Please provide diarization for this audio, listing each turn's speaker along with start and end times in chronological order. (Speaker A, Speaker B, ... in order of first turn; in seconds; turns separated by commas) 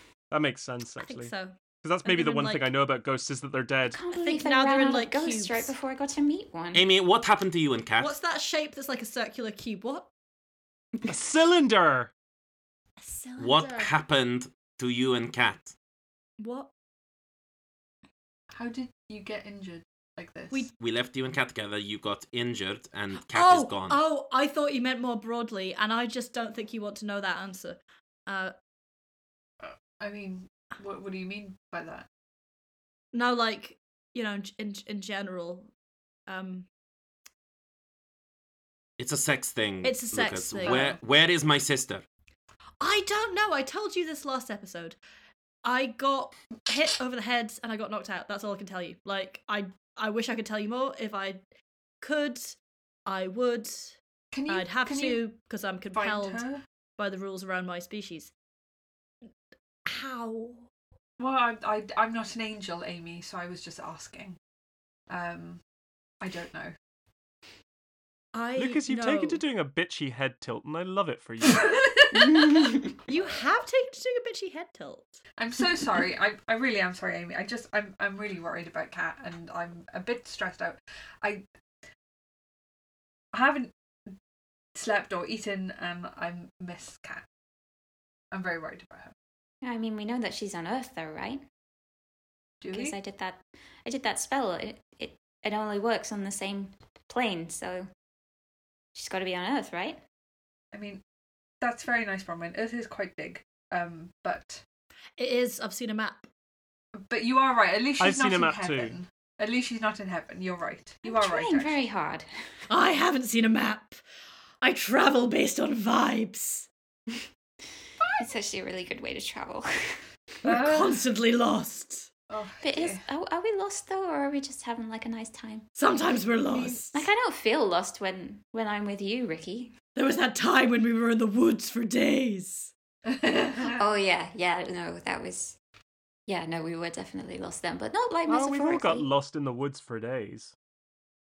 Speaker A: 0.3-4.0, Speaker B: 1.0-2.7, Speaker C: 3.9-6.8, Speaker B: 4.1-5.8, Speaker D: 6.7-8.2, Speaker B: 8.0-10.1, Speaker A: 11.1-12.1, Speaker B: 13.0-13.9, Speaker D: 13.4-15.7, Speaker B: 16.4-16.7, Speaker E: 18.5-20.7, Speaker D: 20.8-24.0, Speaker B: 23.2-28.5, Speaker E: 29.6-32.1, Speaker B: 33.1-35.7, Speaker B: 36.3-36.7, Speaker D: 39.0-42.0, Speaker B: 39.8-40.9, Speaker E: 40.6-41.0, Speaker B: 42.8-45.0, Speaker B: 45.6-51.4, Speaker B: 52.0-54.0, Speaker E: 54.3-55.2, Speaker B: 54.5-56.4, Speaker E: 55.9-56.6, Speaker B: 57.0-58.3, Speaker B: 59.9-60.7, Speaker E: 61.2-64.4, Speaker E: 65.1-65.6, Speaker E: 66.2-66.7, Speaker B: 68.3-69.4, Speaker A: 68.6-71.7, Speaker E: 71.5-72.7, Speaker C: 72.1-72.9, Speaker B: 73.1-75.2, Speaker E: 75.4-81.4, Speaker E: 83.3-84.1, Speaker E: 84.8-87.3, Speaker E: 88.3-89.1, Speaker C: 89.6-91.4, Speaker E: 92.6-93.0, Speaker C: 92.7-97.9, Speaker C: 99.0-100.0, Speaker E: 100.7-101.0, Speaker E: 101.6-104.6, Speaker B: 105.2-106.3, Speaker E: 107.0-111.8, Speaker A: 108.0-109.0, Speaker C: 111.0-112.3, Speaker B: 112.7-114.0, Speaker B: 114.6-116.7, Speaker E: 118.0-118.3, Speaker C: 118.2-120.0, Speaker E: 120.4-121.0, Speaker B: 120.4-122.1, Speaker E: 122.3-123.0, Speaker C: 122.6-125.7, Speaker B: 125.8-127.1, Speaker E: 126.5-126.8, Speaker C: 126.9-129.7, Speaker B: 129.9-132.7, Speaker E: 133.1-133.8, Speaker C: 133.6-135.6, Speaker C: 136.3-139.1, Speaker A: 138.3-140.5